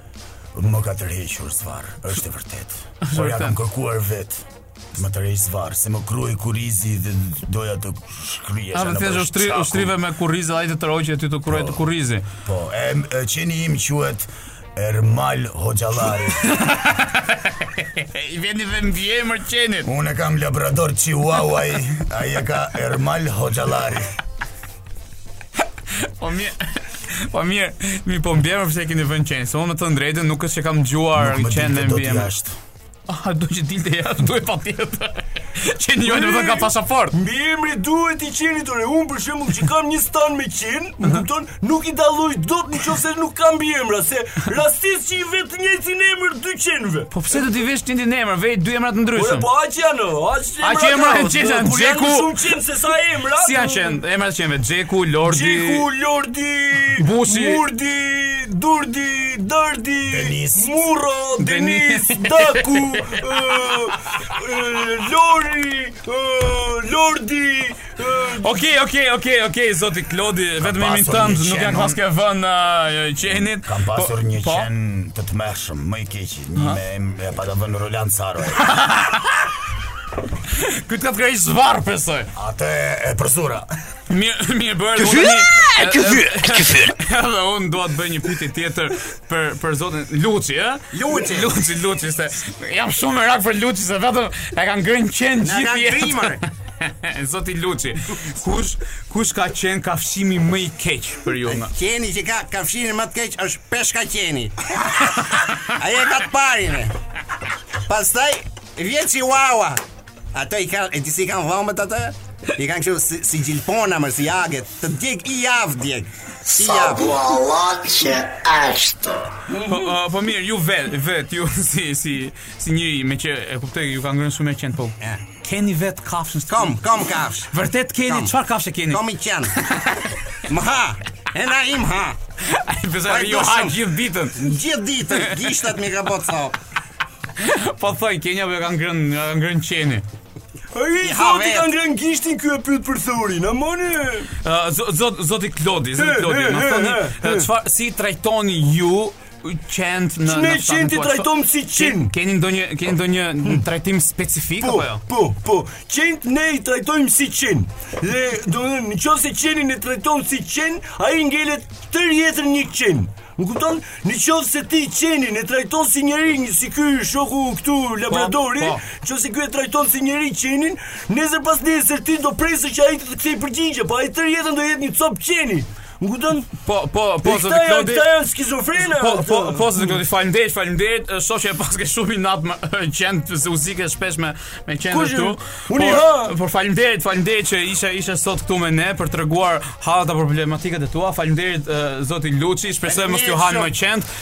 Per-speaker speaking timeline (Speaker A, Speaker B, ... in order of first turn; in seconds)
Speaker A: 0.6-9.9, 11.5-11.8, 12.4-16.5, 19.9-24.1, 31.2-32.6, 60.0-60.7, 70.6-72.0, 73.3-78.7, 82.3-83.7
Speaker B: 3.0-3.5, 8.7-12.2, 16.4-19.9, 25.9-32.3, 33.1-37.2, 47.1-49.5, 50.6-52.5, 53.4-55.9, 57.0-57.6, 61.4-63.3, 68.4-74.7, 78.6-79.5, 80.5-82.3, 84.1-101.7, 119.7-126.9, 127.5-129.0, 132.4-134.4, 135.2-135.6, 137.4-140.0, 144.4-155.0, 168.1-168.8, 176.6-178.1, 178.8-194.1
Speaker C: 36.1-47.2, 49.1-54.0, 55.2-68.5, 119.5-119.9, 140.7-144.3, 146.0-147.5, 150.3-152.1, 154.6-176.5, 177.2-179.8, 184.9-186.3
Speaker D: 85.3-86.1, 116.5-119.3
Speaker E: 90.9-91.5, 95.4-96.4, 101.5-107.0, 107.8-109.8, 110.3-117.2, 126.5-127.5, 128.1-128.3, 128.9-129.6, 130.5-132.2, 133.1-133.8, 134.4-136.6, 141.0-141.7, 192.9-193.7